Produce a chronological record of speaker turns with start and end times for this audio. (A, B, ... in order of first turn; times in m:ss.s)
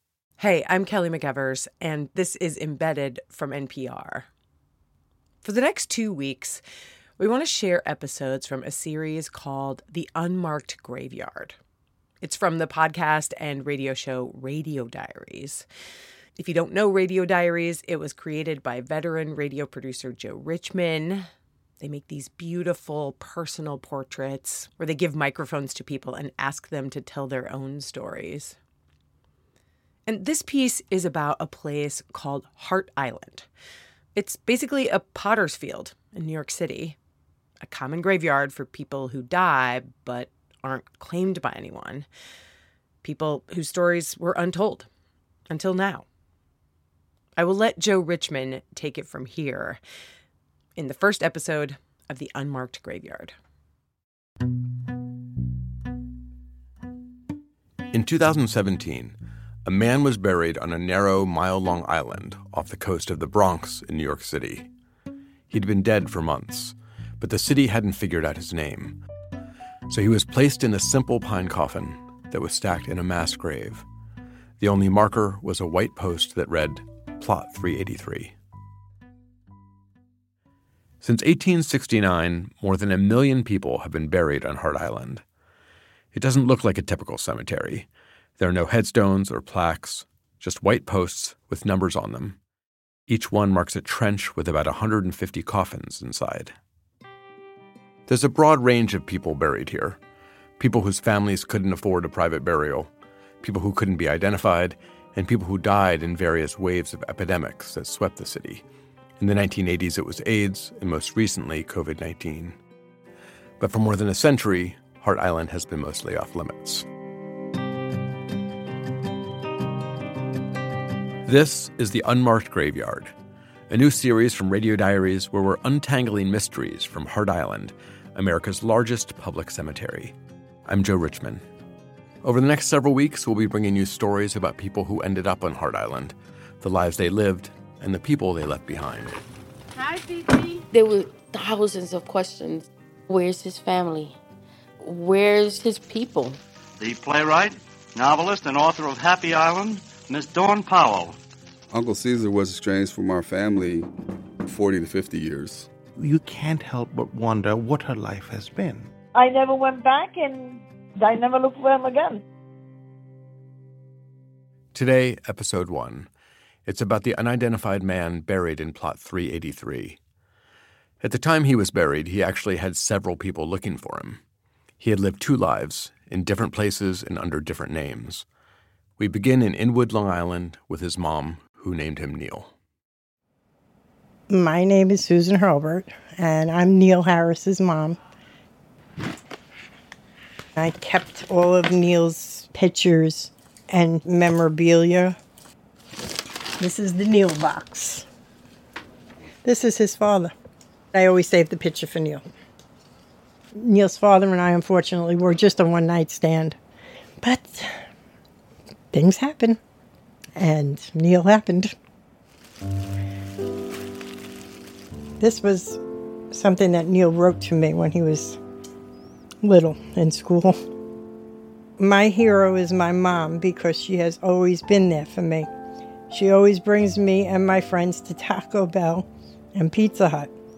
0:00.4-0:04.3 A
0:05.4-0:06.6 A
0:07.2-0:11.6 A
0:12.2-0:15.6 A
0:16.4-0:21.3 A
0:21.8-0:28.6 A
0:30.1-0:33.5 A
0:34.2-0:37.0 A
0:37.6-0:42.1 A
0:43.0-0:44.9 A
0:45.5-0:46.1 A
0:47.4-0:49.8 A
0:50.8-0:53.3 A
0:57.9-1:04.7 B
1:05.5-1:09.0 B
1:09.9-1:13.8 B
1:14.6-1:18.3 B
1:21.0-1:25.2 B
1:26.1-1:27.9 B
1:28.4-1:32.4 B
1:33.1-1:36.6 B
1:38.1-1:40.0 B
1:40.6-1:42.9 B
1:43.4-1:48.6 B
1:49.2-1:52.6 B
1:53.6-1:56.8 B
2:01.3-2:03.1 B
2:03.7-2:10.1 B
2:10.7-2:11.4 B
2:12.2-2:19.2 B
2:20.7-2:24.2 C
2:24.8-2:26.4 C
2:26.8-2:31.2 D
2:31.7-2:33.9 E
2:34.5-2:35.7 E
2:36.0-2:38.9 F
2:39.2-2:42.2 G
2:44.7-2:46.1 B
2:46.7-2:50.0 B
2:51.0-2:54.2 B
2:54.8-2:58.2 B
2:59.0-3:02.5 B
3:04.3-3:08.0 H
3:10.6-3:15.2 H
3:16.6-3:18.0 H
3:19.4-3:20.3 H
3:20.9-3:22.2 H
3:23.6-3:26.6 H
3:27.2-3:27.7 H
3:28.9-3:29.6 H
3:30.4-3:31.7 H
3:35.2-3:35.8 H
3:36.3-3:38.4 H
3:39.4-3:40.6 H
3:41.8-3:45.5 H
3:46.1-3:50.3 H